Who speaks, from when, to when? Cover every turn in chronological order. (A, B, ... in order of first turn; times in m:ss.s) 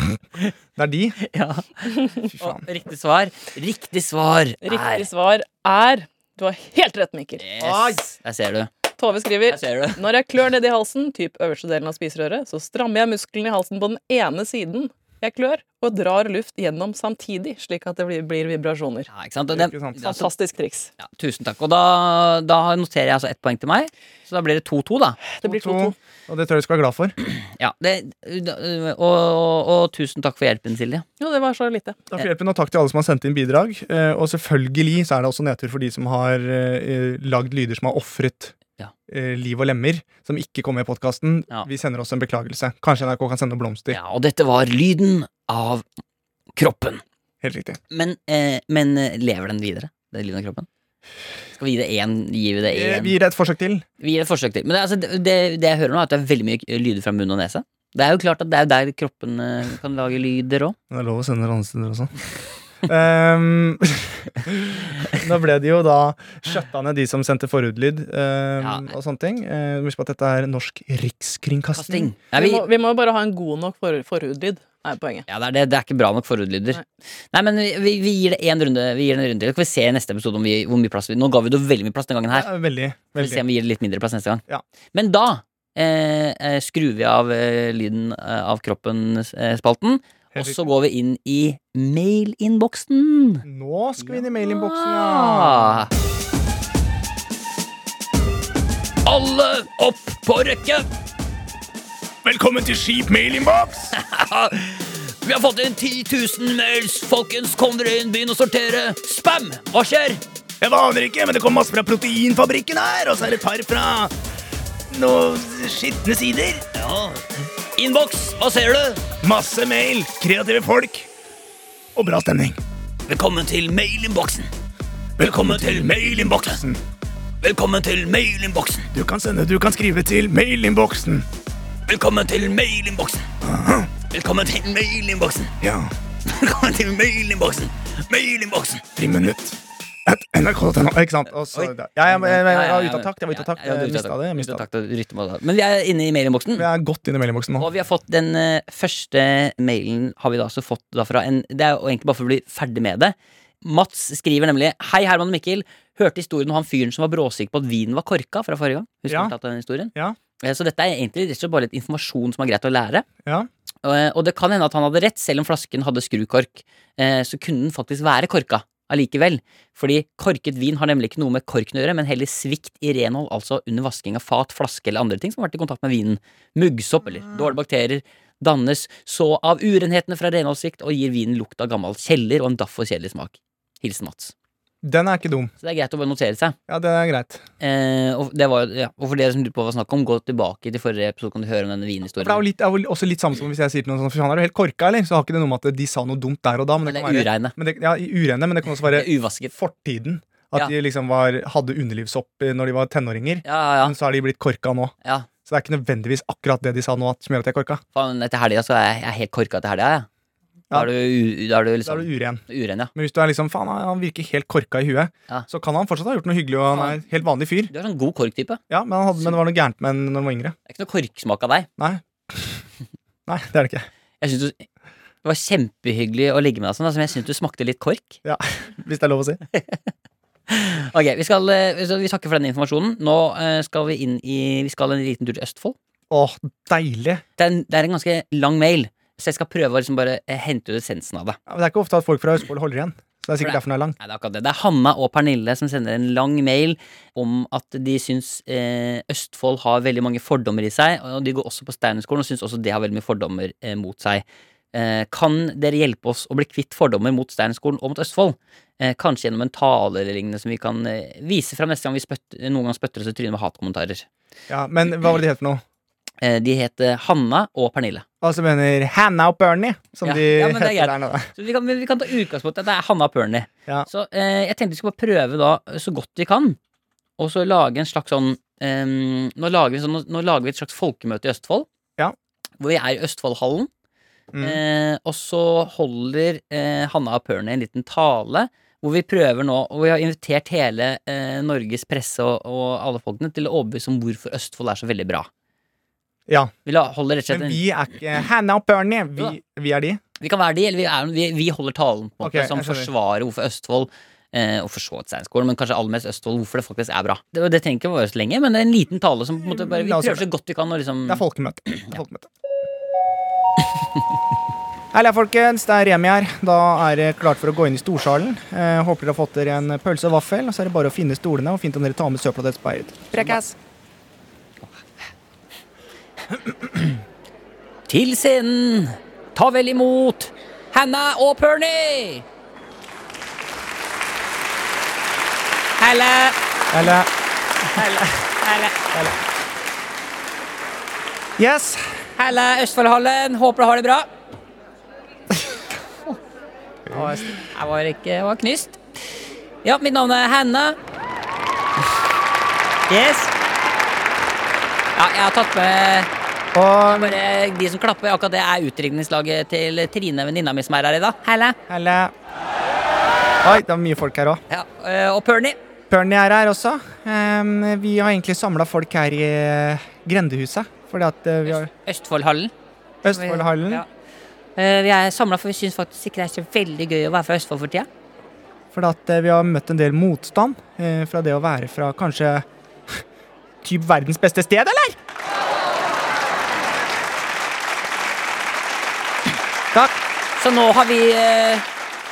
0:00.8-0:01.2 A
0:01.2-0:05.1 B
0:02.3-0:02.6 A
0:04.6-0:07.4 C
0:07.4-0:08.7 B
0:07.6-0:08.1 A
0:09.0-0:19.1 C
0:09.5-0:10.0 B
0:19.1-0:20.3 B
0:19.5-0:20.1 A
0:20.0-0:20.9 C
0:21.0-0:25.2 B
0:25.3-0:26.0 C
0:25.4-0:27.1 A
0:27.3-0:31.0 B
0:31.2-0:32.0 C
0:32.1-0:38.5 A
0:39.1-0:44.0 A
0:43.9-0:45.8 B
0:46.6-0:47.0 B
0:47.4-0:47.8 A
0:47.9-0:50.7 B
0:51.6-0:53.1 B
0:52.6-0:53.8 A
0:54.0-1:00.8 B
1:00.9-1:02.1 A
1:02.9-1:12.1 A
1:08.6-1:08.9 B
1:11.8-1:12.6 B
1:12.3-1:15.3 C
1:15.3-1:16.8 B
1:17.3-1:22.5 B
1:22.3-1:23.4 A
1:23.2-1:33.4 B
1:30.3-1:30.6 A
1:33.4-1:35.9 A
1:34.0-1:35.9 B
1:39.0-1:40.9 B
1:42.2-1:43.9 A
1:43.9-1:50.2 B
1:50.6-1:54.1 A
1:54.9-1:56.7 A
1:56.7-1:57.2 B
1:57.8-1:59.0 B
1:59.2-2:01.1 A
2:02.0-2:02.6 A
2:03.1-2:04.5 B
2:05.2-2:06.8 A
2:05.2-2:06.6 B
2:07.4-2:08.9 B
2:08.9-2:11.3 A
2:11.9-2:13.3 B
2:13.4-2:13.9 A
2:14.1-2:15.5 B
2:15.6-2:15.9 A
2:16.3-2:18.8 B
2:19.0-2:24.6 A
2:21.5-2:26.7 B
2:26.6-2:27.7 A
2:27.6-2:43.1 B
2:39.1-2:39.3 A
2:43.8-3:04.3 B
3:04.8-3:05.5 A
3:05.6-3:06.6 B
3:06.7-3:07.4 A
3:07.6-3:12.4 B
3:12.2-3:24.9 A
3:16.8-3:17.6 B
3:18.8-3:19.5 B
3:23.4-3:24.0 B
3:25.5-3:27.8 A
3:28.0-3:30.1 B
3:30.7-3:32.9 B
3:31.8-3:32.4 A
3:33.0-3:37.7 A
3:36.7-3:37.0 B
3:37.7-3:38.6 B
3:38.7-3:40.6 A
3:40.7-3:41.7 B
3:41.8-3:42.6 A
3:43.3-3:43.9 A
3:44.2-3:44.6 B
3:45.2-3:48.2 B
3:48.2-3:49.4 A
3:49.5-3:49.9 B
3:50.5-3:55.8 B
3:56.1-3:57.2 A
3:57.4-4:01.4 B
4:01.5-4:04.0 A
4:03.4-4:24.1 B
4:24.5-4:25.6 A
4:26.2-4:28.0 B
4:28.2-4:31.3 A
4:30.0-4:36.6 B
4:37.2-4:41.7 B
4:42.6-4:43.7 B
4:44.3-4:44.6 A
4:44.4-4:55.3 B
4:56.3-4:56.5 A
4:56.6-4:57.6 B
4:57.3-5:00.0 A
5:00.2-5:12.0 B
5:02.2-5:02.9 A
5:09.5-5:10.3 A
5:11.1-5:12.3 A
5:14.9-5:23.6 A
5:27.9-5:32.2 B
5:35.8-5:36.4 B
5:36.7-5:37.1 A
5:37.7-5:38.8 B
5:41.4-5:41.9 A
5:42.2-5:44.1 B
5:46.9-5:47.3 A
5:46.9-5:48.8 B
5:49.6-5:50.8 B
5:52.9-5:53.3 B
5:55.0-5:56.1 B
5:56.5-5:57.2 A
5:56.9-6:01.6 B
6:01.7-6:02.1 A
6:03.4-6:04.4 A
6:04.5-6:05.6 B
6:05.9-6:11.7 A
6:11.5-6:12.5 B
6:13.0-6:13.8 A
6:13.1-6:13.9 B
6:14.6-6:17.9 B
6:18.7-6:23.0 A
6:23.6-6:25.0 A
6:29.7-6:30.0 A
6:30.4-6:31.6 B